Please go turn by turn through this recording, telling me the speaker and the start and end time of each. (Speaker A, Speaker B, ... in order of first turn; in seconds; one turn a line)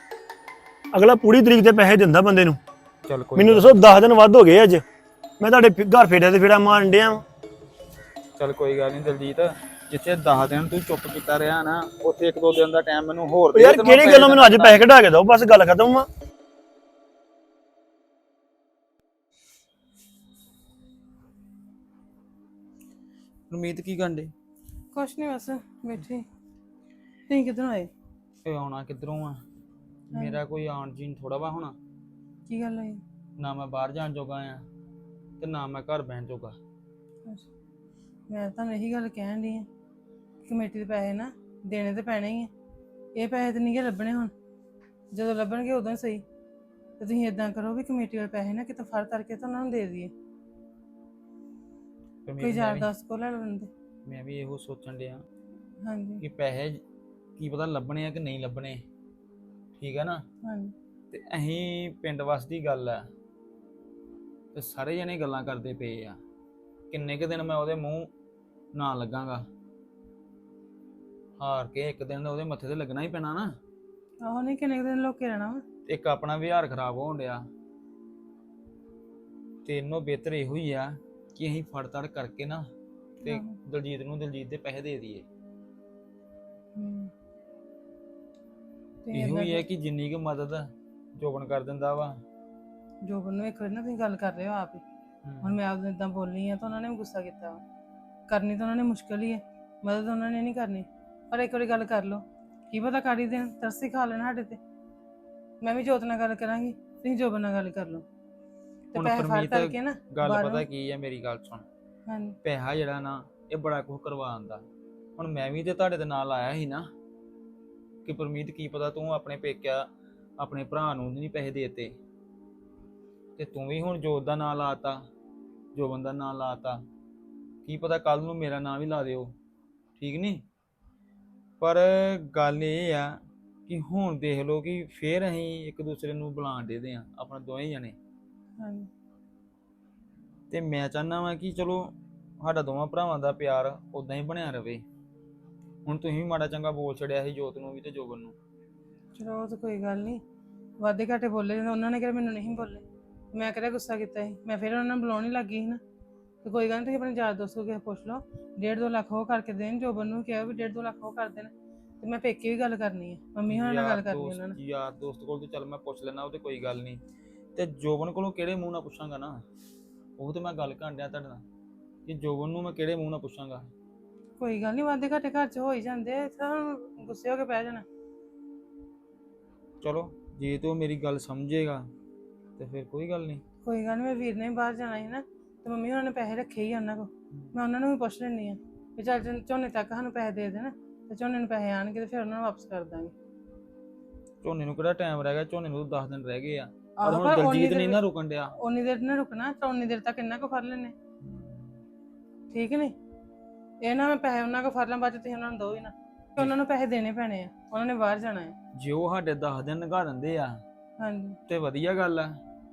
Speaker A: 0.9-2.6
Speaker B: 3.1-3.7
Speaker A: 3.4-4.8
Speaker A: 5.4-7.2
Speaker B: 8.4-14.8
Speaker A: 13.5-16.1
Speaker B: 23.5-24.3
Speaker C: 24.9-26.3
Speaker C: 27.3-27.9
Speaker B: 28.4-29.4
Speaker B: 30.1-31.8
Speaker C: 30.1-30.4
Speaker C: 32.5-33.0
Speaker B: 33.4-34.6
Speaker B: 35.4-36.6
Speaker C: 38.3-39.7
Speaker C: 40.5-42.5
Speaker C: 43.1-44.3
Speaker C: 45.1-46.2
Speaker C: 47.0-50.1
Speaker B: 52.3-52.9
Speaker C: 52.4-53.7
Speaker B: 54.1-55.2
Speaker C: 55.8-56.2
Speaker B: 56.2-56.8
Speaker B: 57.4-58.8
Speaker B: 59.8-60.2
Speaker C: 60.4-60.7
Speaker B: 61.1-63.0
Speaker B: 64.5-66.2
Speaker B: 66.9-68.1
Speaker B: 68.7-69.4
Speaker B: 71.4-73.5
Speaker C: 74.2-75.6
Speaker B: 75.9-77.4
Speaker B: 79.7-82.7
Speaker B: 83.2-85.2
Speaker C: 83.2-83.6
Speaker C: 86.8-87.1
Speaker C: 89.0-89.7
Speaker B: 89.1-92.2
Speaker C: 93.0-94.8
Speaker B: 95.2-95.6
Speaker C: 95.4-97.6
Speaker C: 98.3-104.6
Speaker C: 105.6-108.0
Speaker C: 108.9-110.7
Speaker B: 108.9-111.7
Speaker C: 112.1-112.4
Speaker B: 112.4-114.6
Speaker B: 115.2-116.9
Speaker B: 118.0-119.9
Speaker B: 120.4-122.0
Speaker B: 123.4-125.0
Speaker B: 125.8-126.8
Speaker B: 127.7-129.3
Speaker B: 130.0-130.4
Speaker B: 131.6-137.9
Speaker C: 138.6-138.9
Speaker B: 140.5-144.8
Speaker B: 145.9-148.3
Speaker C: 149.2-150.2
Speaker C: 150.8-155.8
Speaker C: 156.4-164.6
Speaker B: 163.5-167.0
Speaker B: 167.6-169.4
Speaker B: 170.2-171.4
Speaker B: 172.1-173.6
Speaker C: 174.4-177.8
Speaker B: 179.8-181.9
Speaker B: 182.6-183.4
Speaker C: 183.7-193.1
Speaker B: 194.4-198.5
Speaker C: 197.0-198.0
Speaker C: 198.6-200.9
Speaker B: 201.2-201.7
Speaker C: 202.5-202.9
Speaker C: 203.8-208.5
Speaker B: 208.8-210.6
Speaker C: 211.0-211.4
Speaker B: 211.5-212.4